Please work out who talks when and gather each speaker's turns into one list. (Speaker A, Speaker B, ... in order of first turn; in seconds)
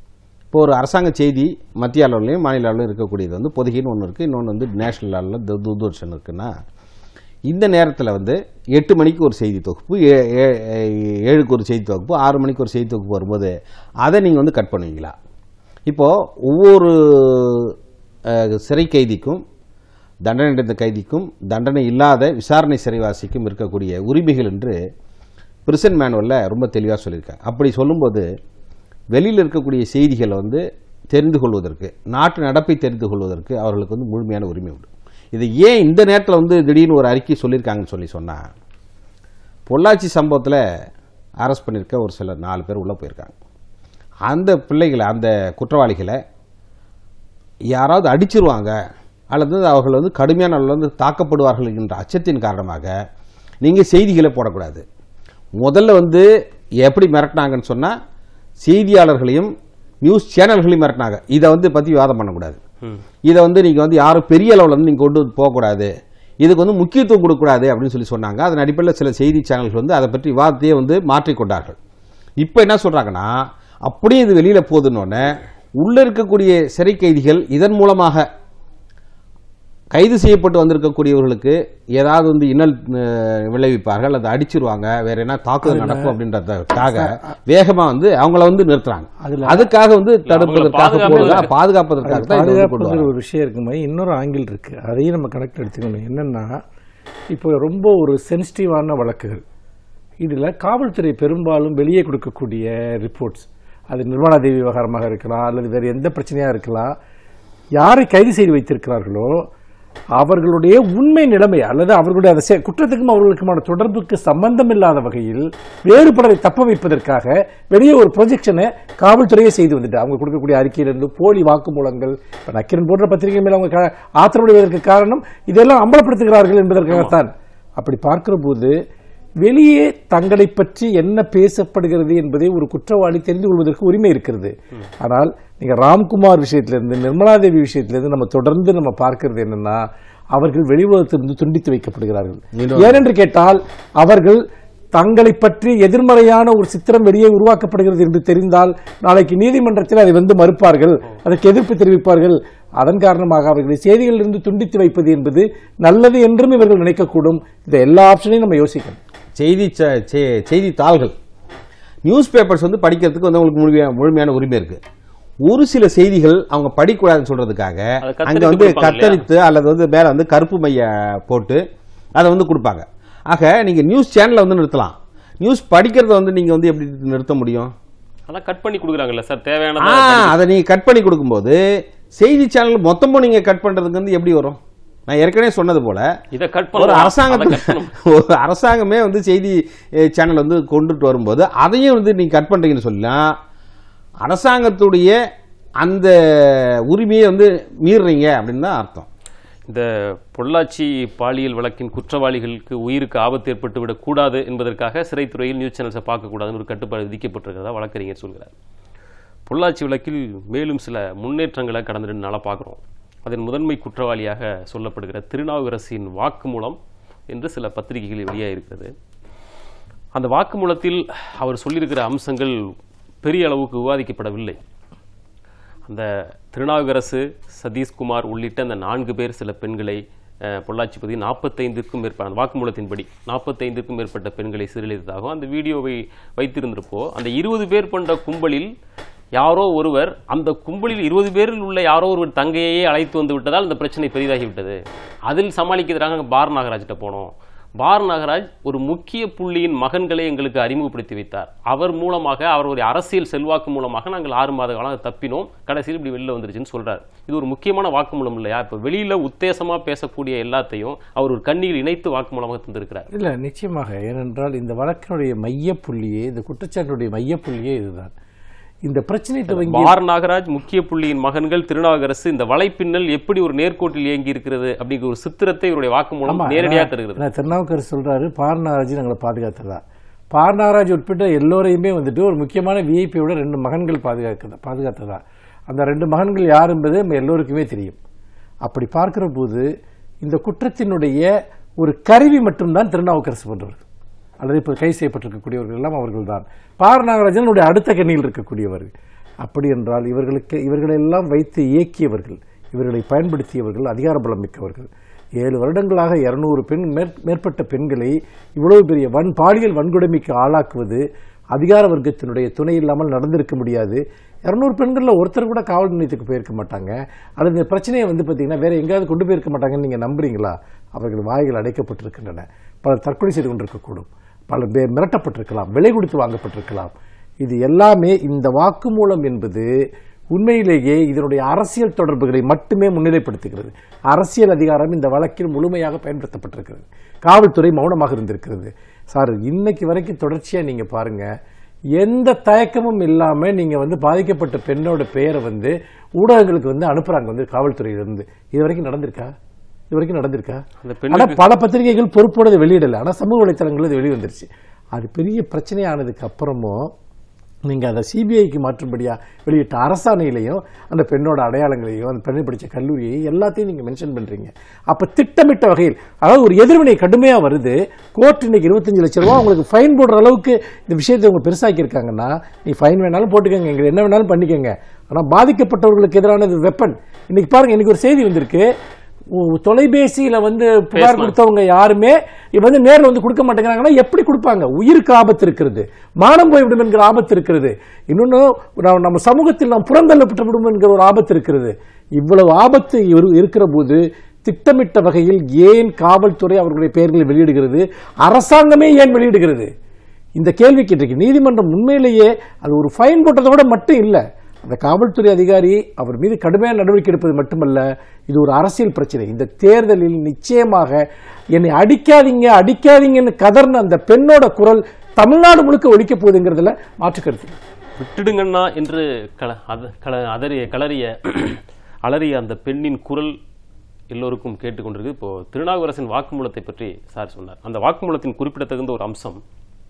Speaker A: 0.5-6.5, 7.5-13.5, 14.0-15.1, 15.9-17.7, 18.3-19.4, 20.3-24.8, 25.7-28.3, 29.1-38.5, 39.7-40.6, 41.4-43.3, 44.3-46.2, 47.7-48.7, 49.3-52.9, 53.6-54.8, 55.6-56.3, 56.8-58.0, 58.6-62.6, 63.3-71.8, 72.4-78.3, 79.9-93.1, 142.5-143.0, 159.4-161.1, 162.1-164.8, 165.5-171.6, 172.2-177.7, 179.8-181.6, 182.2-186.1, 186.8-193.3, 194.2-195.2, 195.8-199.1
Speaker B: 85.7-86.2, 86.8-87.3, 89.2-89.7, 91.0-91.5, 92.0-96.6, 97.3-99.4, 100.2-107.0, 107.8-109.4, 110.2-128.8, 129.4-144.4, 144.9-159.0, 263.1-268.1, 268.9-269.9, 276.3-288.0, 288.6-289.7, 290.2-291.3, 291.8-293.9, 294.4-298.9, 299.4-311.0, 311.5-329.7, 330.3-341.3, 342.0-349.3, 349.9-356.9, 357.7-378.7, 379.3-399.7, 400.4-411.0, 411.6-417.6
Speaker C: 90.3-91.5, 126.9-127.2, 168.0-169.2, 178.3-180.4, 186.3-187.9, 199.7-208.5, 209.5-216.8, 217.3-218.9, 220.1-222.6, 223.2-224.6, 225.9-238.7, 239.4-263.1, 269.5-277.2, 350.8-351.4, 380.9-381.4, 418.0-423.3, 424.1-429.4